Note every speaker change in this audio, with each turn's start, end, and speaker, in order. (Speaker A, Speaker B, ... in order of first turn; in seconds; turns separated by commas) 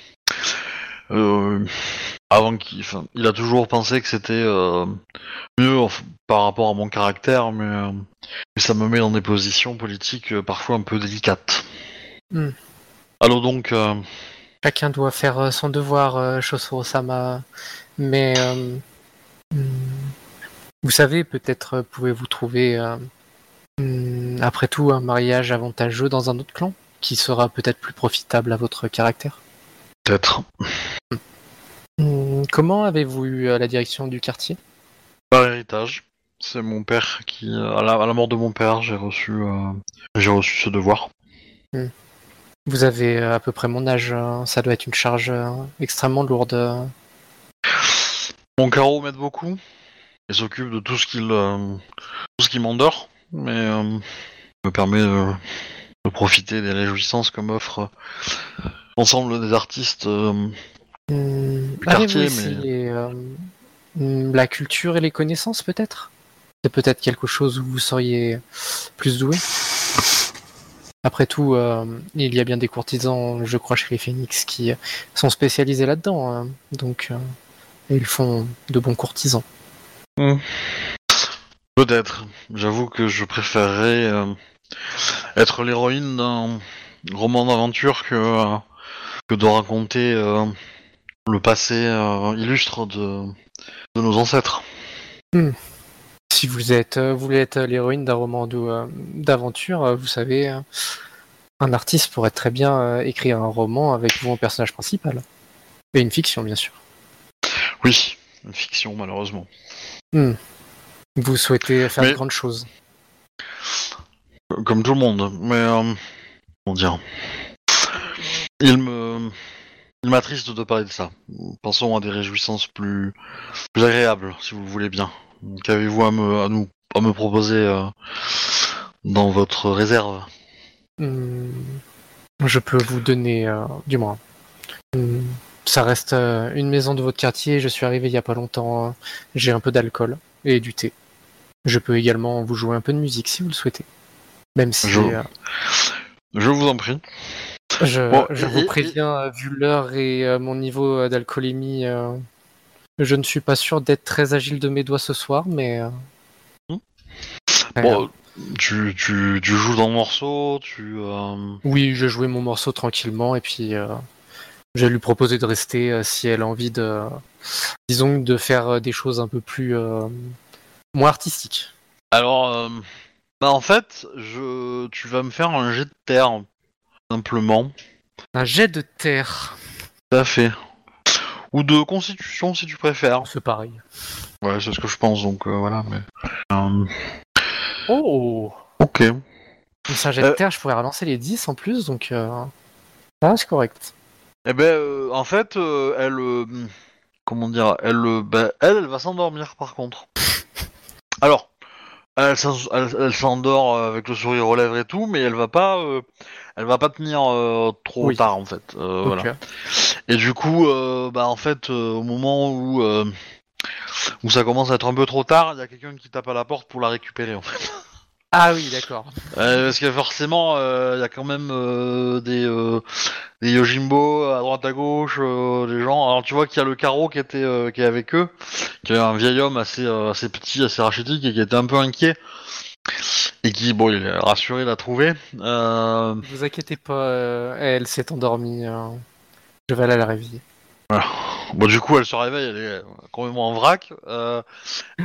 Speaker A: 1.1-5.0, Speaker A: 5.6-11.7, Speaker A: 13.2-14.0, Speaker B: 14.6-17.4, Speaker B: 18.0-18.8, Speaker B: 19.5-20.1, Speaker B: 20.8-23.0, Speaker B: 23.8-29.4, Speaker A: 30.1-30.5, Speaker B: 32.0-34.6, Speaker A: 35.3-41.1, Speaker B: 42.6-46.9, Speaker A: 47.7-49.6, Speaker A: 50.3-51.8, Speaker A: 52.4-54.0, Speaker A: 54.6-55.4, Speaker A: 56.0-57.9, Speaker A: 59.0-60.6, Speaker B: 61.1-66.1, Speaker A: 61.8-62.6, Speaker B: 66.6-68.4, Speaker B: 69.0-69.4, Speaker B: 71.0-77.2, Speaker B: 77.9-79.4, Speaker A: 80.2-80.4, Speaker A: 81.8-84.3, Speaker A: 85.3-88.6, Speaker A: 89.3-90.5, Speaker A: 91.2-93.3, Speaker A: 93.9-94.6, Speaker B: 96.3-100.6, Speaker B: 101.6-105.2, Speaker B: 105.9-106.7, Speaker A: 107.8-109.5, Speaker B: 111.2-112.7, Speaker A: 114.5-116.0, Speaker A: 116.7-117.0, Speaker A: 118.6-119.3, Speaker A: 120.0-123.1, Speaker A: 123.7-130.3, Speaker B: 131.0-131.8, Speaker B: 132.4-134.2, Speaker B: 134.9-140.9, Speaker B: 141.6-143.8, Speaker B: 144.5-145.2, Speaker A: 144.8-147.0, Speaker B: 147.8-152.2, Speaker A: 148.1-148.9, Speaker B: 153.0-155.9, Speaker A: 157.8-161.6, Speaker B: 157.8-158.0, Speaker B: 161.6-164.0, Speaker B: 164.7-167.2, Speaker B: 167.9-170.3, Speaker B: 170.9-171.7, Speaker A: 172.1-172.8, Speaker A: 173.4-176.4, Speaker A: 177.1-177.7, Speaker B: 178.3-179.6, Speaker A: 180.1-180.5, Speaker A: 181.1-183.3, Speaker B: 183.2-183.8, Speaker A: 184.4-186.9, Speaker B: 187.9-188.6, Speaker A: 188.8-189.2, Speaker B: 189.9-192.5, Speaker B: 193.2-193.9, Speaker A: 194.4-196.7, Speaker A: 197.2-200.1, Speaker A: 201.2-201.5, Speaker A: 202.2-206.0, Speaker A: 206.6-213.1, Speaker B: 209.0-209.3, Speaker A: 214.2-217.8, Speaker B: 218.3-219.1, Speaker A: 219.3-232.2, Speaker A: 233.4-236.2, Speaker B: 236.2-239.0, Speaker B: 239.7-240.4, Speaker A: 240.9-244.4